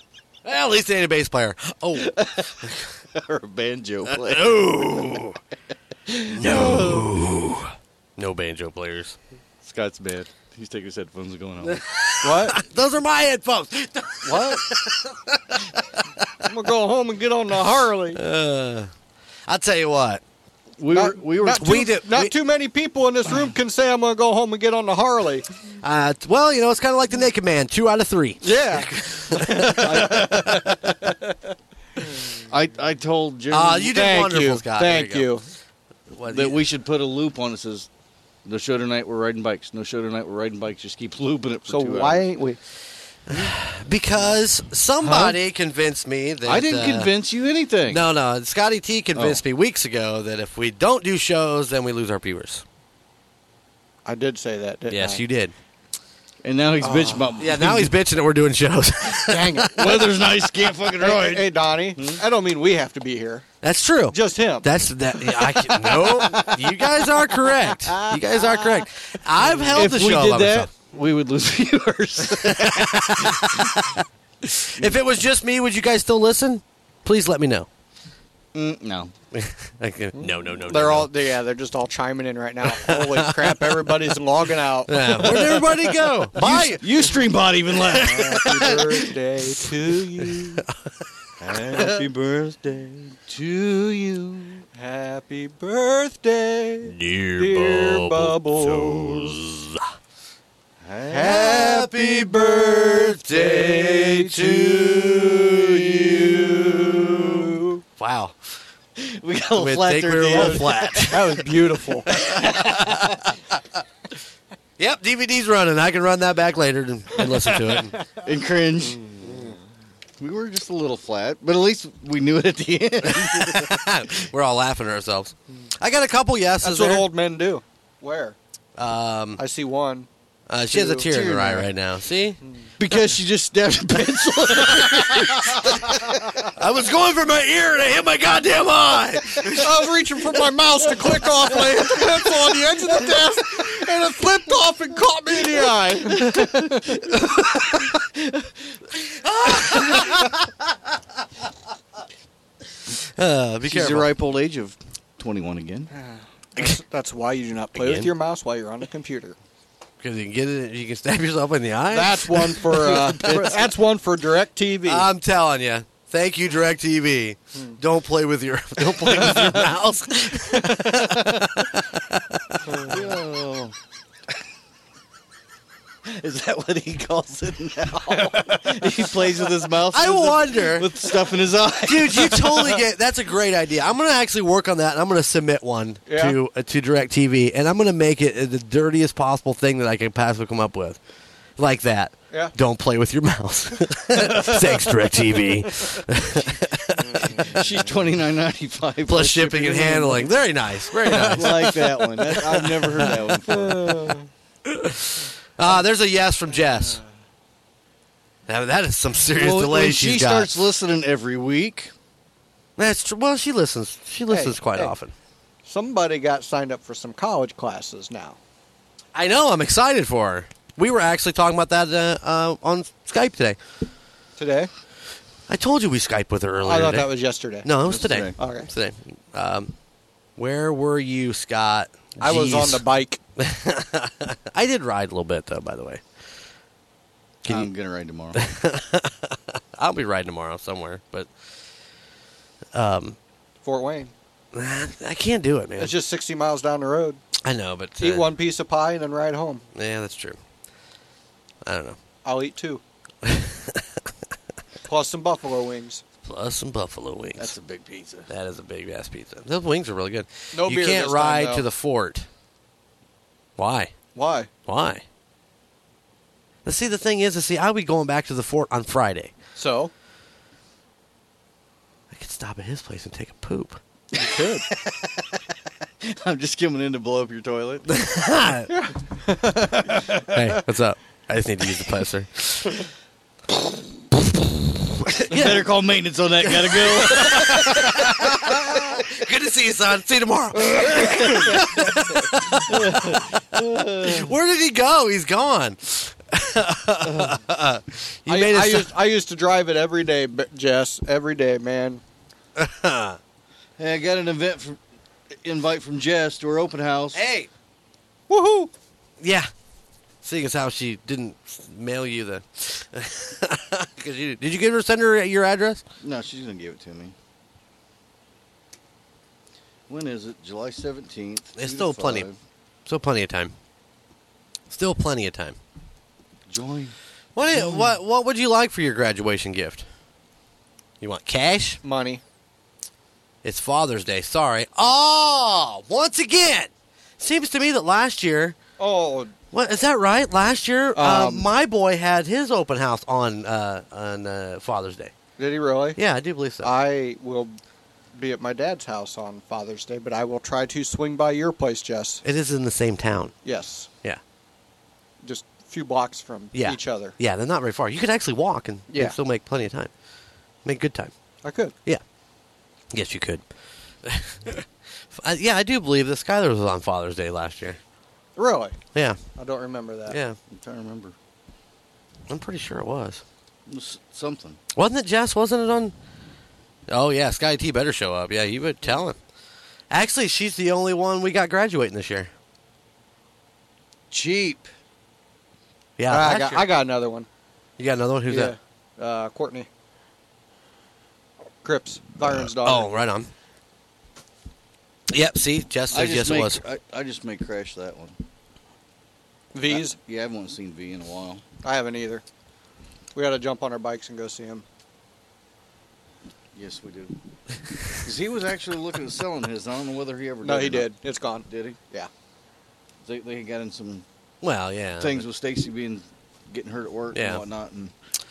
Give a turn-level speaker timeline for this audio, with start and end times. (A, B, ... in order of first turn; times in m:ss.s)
0:00.4-0:02.2 A
0:02.0-0:04.8 B
0:04.1-0:05.4 A
0:06.1-0:07.1 B
0:06.4-0:09.2 A
0:09.6-0:11.8 B
0:11.7-0:15.6 A
0:12.2-0:12.6 C
0:14.2-0:14.6 C
0:16.4-0:18.2 C
0:18.2-0:18.9 A
0:19.5-0:20.2 A
0:20.8-0:21.9 B
0:20.9-0:25.5 C
0:21.6-0:22.3 A
0:25.8-0:30.4 A
0:28.4-0:28.9 C
0:29.4-0:30.6 C
0:29.8-0:30.6 B
0:32.5-0:34.0 B
0:33.5-0:35.3 A
0:33.9-0:35.4 C
0:36.1-0:36.6 A
0:36.3-0:37.9 B
0:38.4-0:42.3 B
0:41.7-0:42.6 C
0:43.3-0:47.1 A
0:46.4-0:48.0 B
0:47.9-0:52.6 A
0:49.2-0:49.4 B
0:54.0-0:55.2 C
0:54.9-0:55.5 A
0:56.4-0:58.0 B
0:56.8-0:57.3 C
0:57.4-0:59.7 A
0:59.3-1:00.1 C
0:59.8-1:02.2 B
1:01.0-1:03.5 C
1:03.6-1:10.7 A
1:04.1-1:04.7 C
1:09.4-1:13.8 B
1:12.4-1:13.8 A
1:14.4-1:17.7 A
1:18.5-1:19.1 B
1:19.3-1:21.1 A
1:20.2-1:25.6 C
1:22.7-1:23.9 A
1:24.9-1:26.8 A
1:26.4-1:28.8 B
1:27.9-1:30.6 C
1:31.4-1:34.6 B
1:34.8-1:39.4 C
1:36.9-1:39.8 A
1:40.8-1:47.3 B
1:41.1-1:42.9 C
1:41.2-1:48.4 A
1:47.4-1:47.8 C
1:49.0-1:51.2 B
1:49.6-1:51.3 A
1:50.4-1:52.1 C
1:52.1-1:53.3 B
1:52.1-1:53.2 A
1:54.8-1:58.0 A
1:58.2-1:59.3 B
2:00.2-2:03.9 B
2:03.1-2:07.1 A
2:06.6-2:08.4 C
2:08.8-2:09.4 A
2:09.4-2:10.1 C
2:10.5-2:12.4 A
2:10.7-2:11.7 B
2:12.8-2:15.6 B
2:14.7-2:15.6 A
2:16.6-2:19.7 A
2:19.4-2:26.8 C
2:28.2-2:28.5 B
2:29.3-2:30.4 A
2:29.7-2:29.9 B
2:33.2-2:34.1 A
2:33.6-2:35.9 B
2:36.6-2:39.4 C
2:37.8-2:38.1 A
2:40.0-2:43.4 A
2:41.9-2:45.1 C
2:42.8-2:43.6 B
2:44.9-2:51.7 A
2:49.2-2:49.6 B
2:50.5-2:51.5 B
2:52.8-2:53.8 B
2:56.0-3:02.8 B
2:59.9-3:01.0 A
3:01.8-3:11.0 A
3:06.1-3:06.4 C
3:11.6-3:17.4 A
3:17.2-3:20.4 B
3:19.1-3:23.1 A
3:20.9-3:24.1 B
3:23.8-3:24.2 C
3:24.7-3:27.0 A
3:28.5-3:30.6 A
3:29.3-3:31.9 B
3:32.8-3:35.1 A
3:34.3-3:34.9 C
3:35.6-3:38.4 C
3:39.1-3:43.6 A
3:44.4-3:44.7 C
3:45.5-3:47.1 A
3:46.6-3:47.7 C
3:47.6-3:49.7 A
3:47.8-3:48.3 B
3:48.4-3:48.7 C
3:50.4-3:52.8 A
3:52.2-3:53.2 C
3:53.4-3:56.0 A
3:57.5-3:58.4 B
3:58.4-4:01.3 A
4:02.7-4:03.2 A
4:03.6-4:04.1 C
4:04.5-4:05.9 A
4:05.8-4:07.2 C
4:07.4-4:08.3 A
4:08.0-4:09.6 C
4:09.8-4:10.4 A
4:11.7-4:12.0 A
4:12.2-4:12.8 C
4:13.2-4:13.8 A
4:14.9-4:16.0 C
4:16.2-4:17.6 A
4:17.4-4:18.3 B
4:18.3-4:22.3 A
4:20.5-4:21.6 C
4:23.6-4:23.9 A
4:24.2-4:24.5 C
4:24.7-4:25.0 A
4:26.6-4:29.3 A
4:29.6-4:29.9 C
4:32.1-4:33.8 A
4:34.2-4:34.6 C
4:36.0-4:37.9 B
4:37.9-4:38.7 A
4:38.7-4:40.0 C
4:40.3-4:42.8 A
4:45.1-4:45.7 A
4:45.3-4:47.6 B
4:46.4-4:58.9 A
4:52.7-4:54.3 B
4:57.0-4:57.4 B
4:58.3-5:02.0 C
5:02.6-5:03.2 A
5:03.8-5:04.8 B
5:05.4-5:07.2 B
5:07.1-5:07.5 A
5:08.3-5:08.7 C
5:09.2-5:09.5 A
5:10.2-5:15.8 A
5:16.0-5:17.2 B
5:19.9-5:22.4 B
5:21.6-5:22.3 A
5:22.9-5:23.5 A
5:24.7-5:25.6 A
5:26.5-5:26.9 B
5:27.4-5:29.9 A
5:27.5-5:27.8 B
5:31.0-5:31.8 A
5:31.8-5:32.2 C
5:33.4-5:38.6 A
5:38.8-5:39.3 C
5:39.5-5:45.1 A
5:41.0-5:41.5 C
5:45.4-5:46.0 C
5:46.0-5:46.7 A
5:46.6-5:47.6 C
5:48.2-5:52.2 C
5:52.2-5:53.4 A
5:53.4-5:53.9 C
5:55.2-5:57.2 C
5:56.5-5:59.9 A
5:58.9-5:59.2 C
6:00.6-6:01.1 A
6:01.4-6:01.7 C
6:02.9-6:03.4 A
6:04.0-6:07.8 A
6:08.4-6:08.8 C
6:09.4-6:10.2 C
6:10.1-6:10.4 A
6:10.5-6:11.2 B
6:12.3-6:13.2 A
6:13.7-6:14.6 B
6:14.8-6:15.9 A
6:16.9-6:19.2 A
6:19.9-6:22.3 A
6:24.1-6:24.7 B
6:26.0-6:26.6 A
6:26.1-6:27.3 C
6:27.8-6:28.6 A
6:28.3-6:29.7 C
6:31.6-6:32.9 C
6:32.2-6:33.3 A
6:35.1-6:36.6 A
6:35.9-6:38.2 B
6:39.5-6:40.0 C
6:39.7-6:41.4 B
6:41.6-6:42.2 C
6:43.2-6:44.6 C
6:46.6-6:47.2 B
6:48.0-6:50.9 B
6:50.4-6:52.1 C
6:51.5-6:51.8 B
6:53.0-6:54.0 B
6:54.4-6:55.2 A
6:55.0-6:57.9 B
6:57.1-6:57.4 A